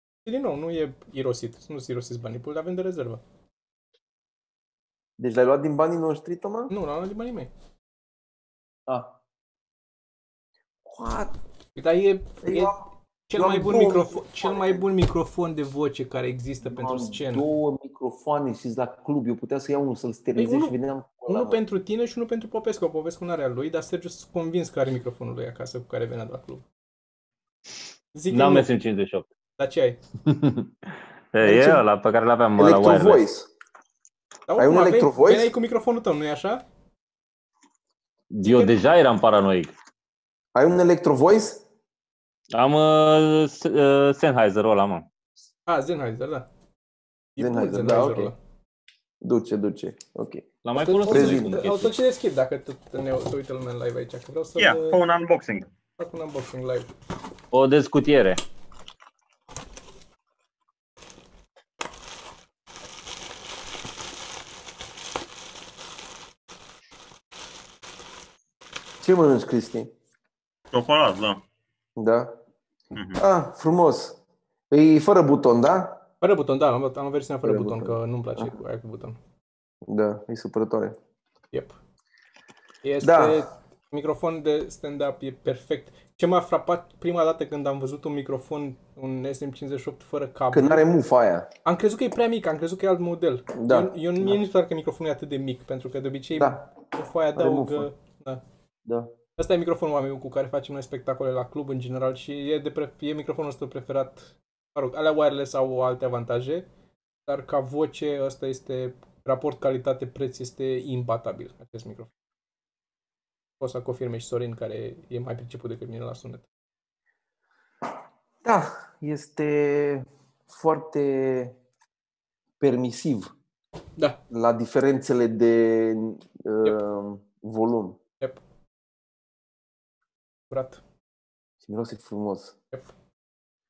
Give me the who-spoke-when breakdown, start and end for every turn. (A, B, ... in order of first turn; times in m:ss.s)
0:00.2-0:03.2 A
0:05.2-0:06.7 B
0:06.7-0:07.5 A
0:08.9-0:09.1 B
0:10.8-0:11.3 B
0:11.8-0:12.8 A
0:12.4-0:14.8 B
0:13.3-0:17.4 A
0:16.6-0:21.6 B
0:20.4-0:20.7 A
0:21.3-0:26.6 A
0:28.1-0:28.7 A
0:28.3-0:29.2 C
0:29.6-0:30.0 A
0:30.2-0:30.7 C
0:31.3-0:33.2 C
0:31.4-0:31.8 B
0:32.6-0:33.5 B
0:34.5-0:36.6 A
0:34.6-0:35.5 B
0:38.3-0:39.7 C
0:38.4-0:38.8 A
0:40.5-0:41.6 B
0:42.5-0:45.1 C
0:45.7-0:46.5 A
0:47.4-0:48.4 A
0:47.4-0:48.3 B
0:49.2-0:50.4 B
0:50.6-0:51.9 C
0:50.8-0:55.0 A
0:51.1-0:51.6 B
0:54.6-0:55.7 D
0:56.0-0:56.9 A
0:57.5-0:58.4 C
1:09.0-1:09.9 B
1:10.7-1:11.4 D
1:12.0-1:12.3 B
1:12.9-1:13.2 D
1:13.2-1:14.2 B
1:14.7-1:16.0 B
1:16.2-1:19.2 A
1:17.4-1:18.5 B
1:19.8-1:21.0 B
1:21.5-1:21.8 A
1:22.8-1:30.8 A
1:23.0-1:23.4 B
1:30.5-1:31.5 B
1:31.6-1:38.4 A
1:33.5-1:34.4 B
1:36.4-1:36.7 B
1:37.3-1:37.9 B
1:38.8-1:39.1 B
1:39.4-1:46.7 A
1:47.2-1:52.1 A
1:53.6-1:56.4 A
1:58.4-2:01.6 B
2:02.6-2:03.3 B
2:04.3-2:08.0 B
2:10.5-2:10.8 A
2:11.6-2:12.5 B